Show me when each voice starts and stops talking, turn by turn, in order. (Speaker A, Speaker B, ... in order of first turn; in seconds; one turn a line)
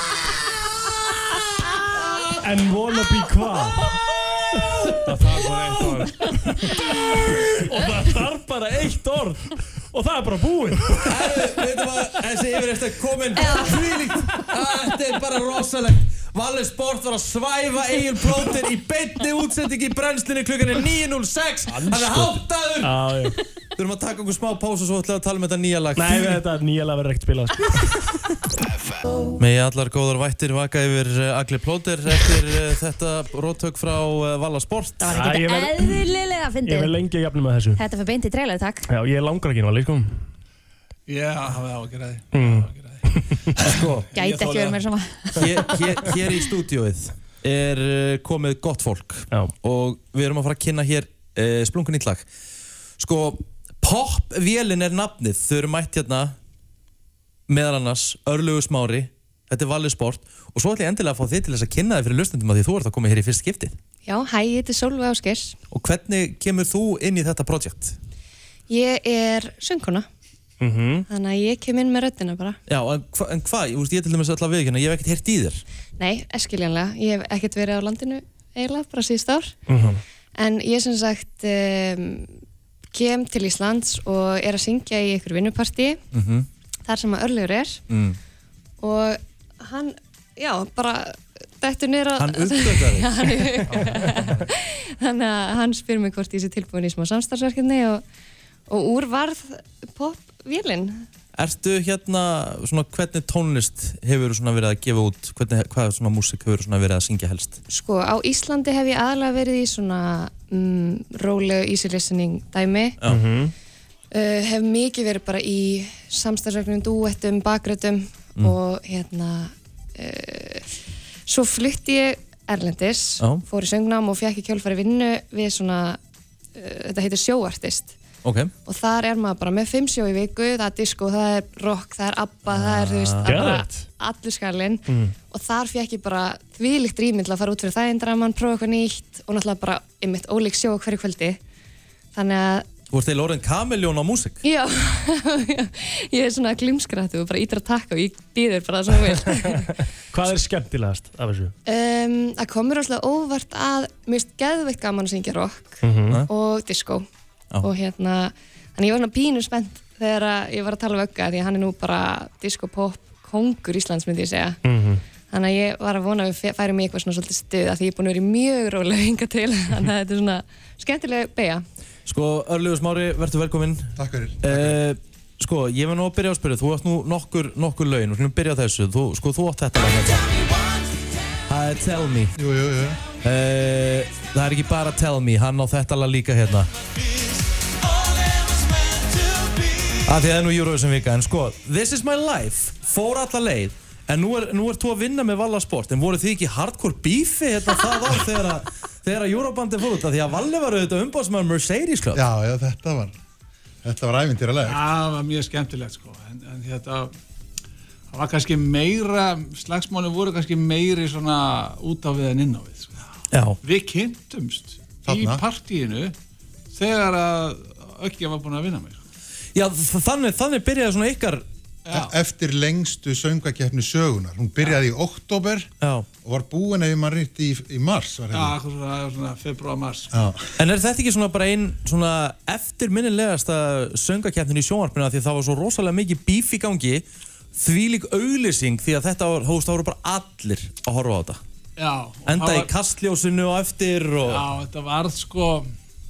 Speaker A: 2.4-4.0
Speaker A: 5.0-11.1
Speaker B: 5.1-6.3
Speaker C: 11.0-23.1
Speaker D: 13.4-13.8
Speaker B: 21.8-22.3
Speaker A: 21.9-23.4
Speaker C: 23.8-26.4
Speaker A: 25.9-28.1
Speaker C: 29.4-35.2
Speaker D: 35.0-36.9
Speaker A: 35.1-36.0
Speaker A: 36.6-37.8
Speaker D: 37.8-38.9
Speaker A: 38.9-40.2
Speaker B: 41.1-44.8
Speaker A: 42.3-43.5
Speaker C: 43.6-44.1
Speaker D: 44.1-46.1
Speaker C: 45.4-52.3
Speaker C: 53.0-56.3
Speaker C: 57.5-63.7
Speaker E: 64.0-65.6
Speaker C: 65.7-68.0
Speaker E: 68.7-70.0
Speaker A: 70.6-71.1
Speaker E: 71.1-72.6
Speaker C: 72.7-75.6
Speaker E: 76.0-79.6
Speaker A: 79.7-80.0
Speaker E: 80.4-82.3
Speaker E: 82.9-86.0
Speaker C: 86.1-86.5
Speaker E: 86.8-87.8
Speaker C: 87.9-88.2
Speaker E: 88.8-98.0
Speaker C: 92.2-93.1
Speaker C: 93.7-94.4
Speaker E: 98.7-101.0
Speaker C: 101.3-107.6
Speaker E: 107.7-113.0
Speaker A: 113.1-113.5
Speaker E: 114.1-120.7
Speaker E: 121.3-126.0
Speaker E: 126.5-128.0
Speaker C: 128.2-128.5
Speaker E: 128.7-141.4
Speaker C: 132.5-133.5
Speaker A: 133.2-133.9
Speaker A: 134.9-135.1
Speaker E: 142.1-142.7
Speaker C: 142.9-144.4
Speaker E: 144.4-149.8
Speaker A: 150.1-151.5
Speaker E: 151.7-157.0
Speaker A: 155.8-156.2
Speaker E: 157.6-164.6
Speaker A: 164.6-165.0
Speaker E: 165.3-171.6
Speaker C: 172.1-180.5
Speaker F: 174.0-174.8
Speaker C: 181.5-182.3
Speaker F: 182.3-183.0
Speaker C: 183.2-186.7
Speaker C: 190.0-202.2
Speaker F: 202.1-203.1
Speaker F: 203.8-204.8
Speaker B: 204.7-207.1
Speaker B: 208.1-213.1
Speaker C: 213.3-213.6
Speaker B: 213.6-216.1
Speaker F: 215.0-215.4
Speaker B: 216.7-219.0
Speaker C: 219.5-221.4
Speaker B: 221.8-222.1
Speaker F: 221.9-228.5
Speaker C: 225.8-226.1
Speaker B: 228.3-230.1
Speaker F: 230.1-230.5
Speaker C: 230.6-237.0
Speaker C: 237.5-241.4
Speaker B: 241.8-242.7
Speaker C: 242.2-244.4
Speaker B: 244.2-245.7